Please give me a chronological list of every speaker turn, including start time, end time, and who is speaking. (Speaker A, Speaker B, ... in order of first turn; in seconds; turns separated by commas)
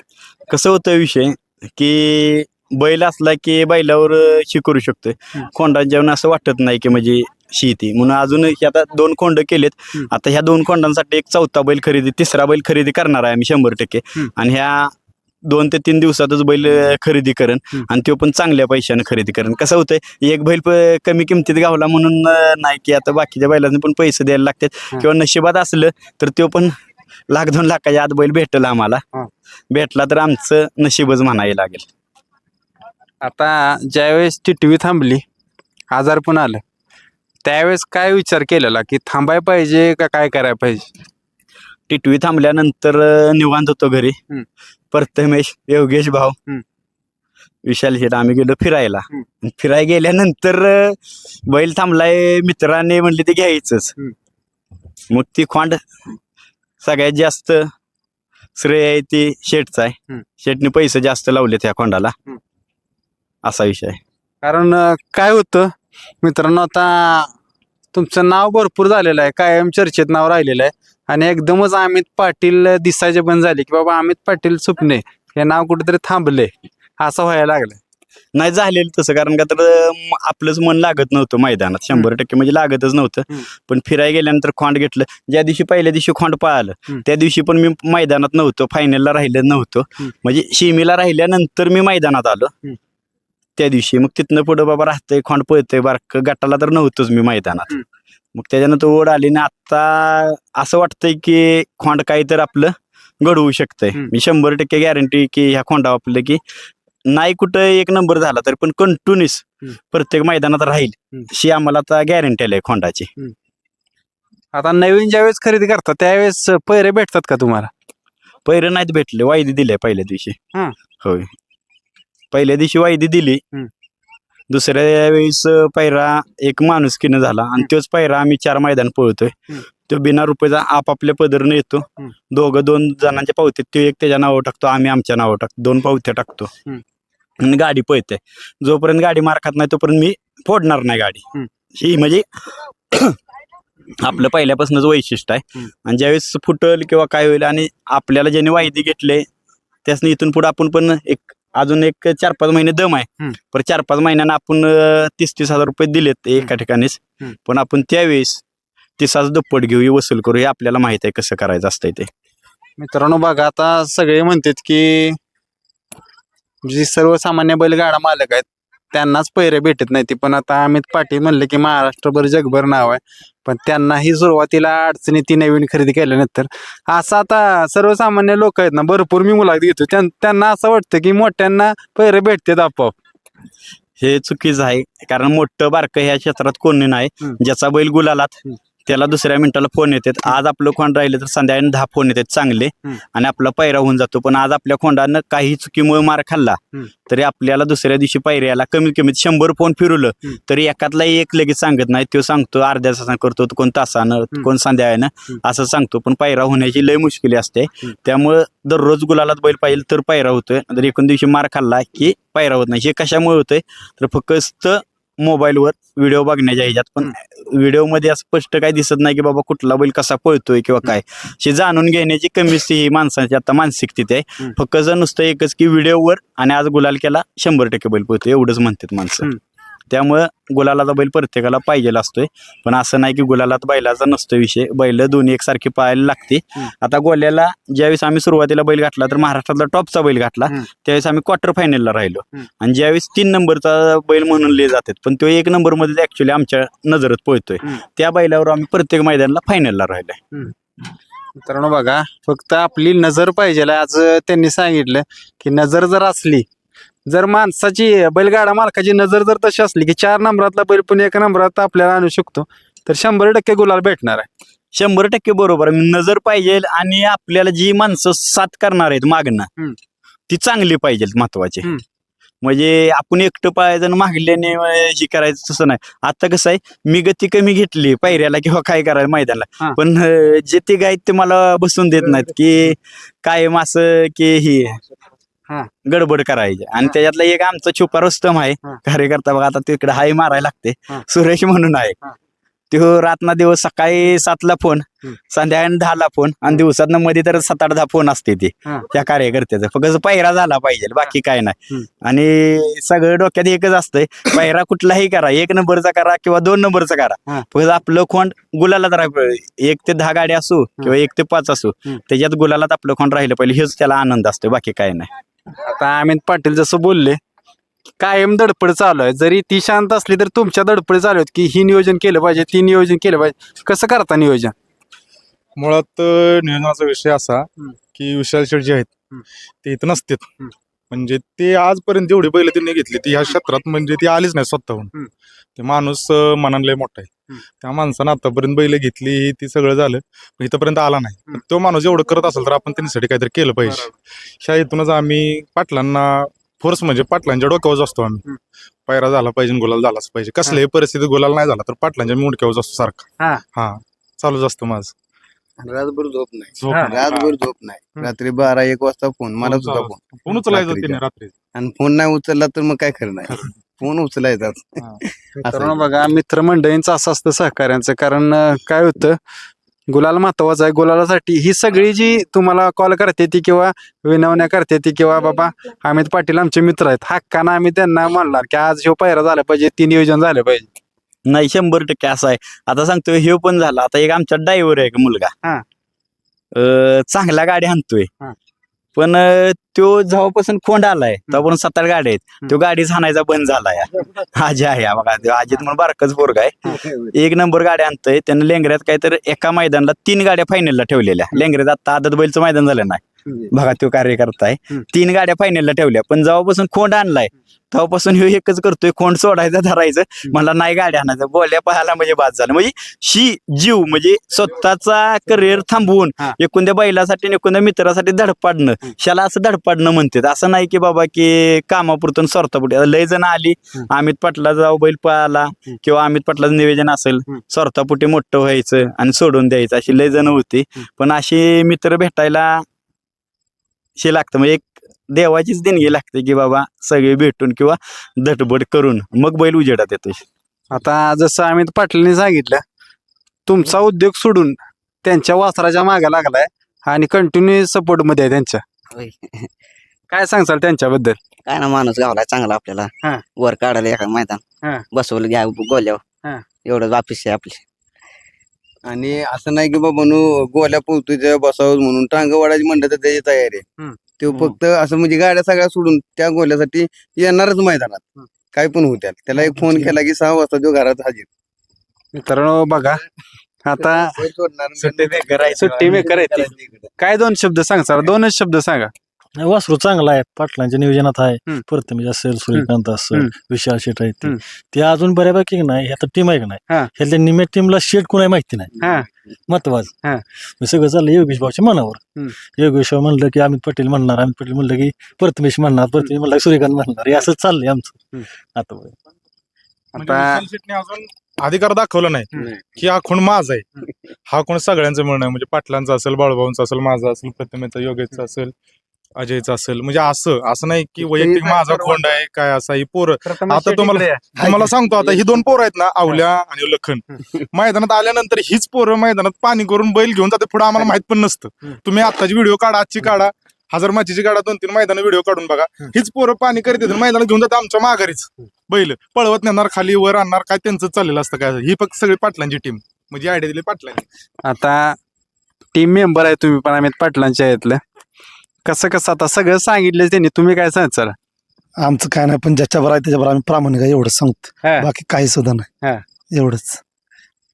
Speaker A: 0.5-14.9, Speaker A: 15.4-26.7, Speaker A: 27.3-29.0, Speaker A: 29.7-31.9, Speaker B: 33.2-35.2, Speaker B: 35.9-36.6, Speaker B: 37.4-40.9, Speaker A: 41.9-44.2, Speaker A: 44.9-46.4, Speaker A: 47.6-53.9, Speaker A: 55.1-55.8, Speaker A: 56.8-57.7, Speaker A: 58.5-62.1, Speaker A: 63.4-64.0, Speaker B: 64.4-67.3, Speaker B: 67.9-77.8, Speaker A: 78.3-92.5, Speaker A: 93.6-97.8, Speaker A: 98.3-106.4, Speaker A: 107.1-113.1, Speaker B: 114.5-117.7, Speaker A: 118.5-120.3, Speaker A: 121.0-121.3, Speaker A: 122.3-123.4, Speaker A: 124.5-129.3, Speaker A: 129.9-136.5, Speaker A: 137.4-141.2, Speaker A: 141.8-143.2, Speaker A: 144.0-149.2, Speaker A: 149.8-158.4, Speaker A: 159.0-162.1, Speaker B: 162.8-165.2, Speaker B: 166.6-182.9, Speaker A: 184.0-229.3, Speaker A: 229.9-250.2, Speaker B: 251.4-256.4, Speaker B: 257.1-264.3, Speaker A: 264.7-269.5, Speaker A: 270.3-271.7, Speaker A: 272.4-284.8, Speaker A: 285.9-292.0, Speaker A: 292.7-315.1, Speaker B: 315.6-317.2, Speaker B: 318.0-324.5, Speaker C: 325.6-328.9, Speaker C: 329.6-330.3, Speaker C: 330.9-334.9, Speaker C: 335.6-337.1, Speaker C: 337.6-348.2, Speaker C: 348.9-354.9, Speaker D: 355.6-361.0, Speaker C: 356.6-357.3, Speaker C: 359.4-361.3, Speaker D: 361.6-365.8, Speaker B: 365.4-369.2, Speaker B: 369.9-380.7, Speaker A: 381.2-385.3, Speaker A: 386.5-388.1, Speaker A: 388.9-432.6, Speaker A: 434.0-440.2, Speaker B: 440.7-442.6, Speaker B: 443.4-448.6, Speaker E: 448.9-449.5, Speaker B: 450.1-451.2, Speaker E: 451.4-454.4, Speaker E: 454.9-456.0, Speaker E: 456.6-457.6, Speaker D: 458.8-463.6, Speaker B: 463.8-464.5, Speaker D: 464.2-471.3, Speaker B: 472.1-473.0, Speaker B: 473.6-474.1, Speaker D: 474.0-476.9, Speaker A: 474.8-476.0, Speaker B: 475.6-478.9, Speaker F: 479.4-488.9, Speaker B: 482.5-483.3, Speaker B: 488.8-489.1, Speaker F: 489.5-489.9, Speaker F: 490.6-492.0, Speaker F: 492.5-498.9, Speaker B: 499.9-500.4, Speaker C: 499.9-503.6, Speaker C: 504.3-508.5, Speaker C: 509.2-534.0, Speaker B: 511.3-511.7, Speaker B: 513.3-514.2, Speaker B: 534.4-535.0, Speaker B: 535.7-537.8, Speaker B: 538.6-541.1, Speaker G: 541.8-544.4, Speaker G: 544.9-545.6, Speaker G: 546.3-546.8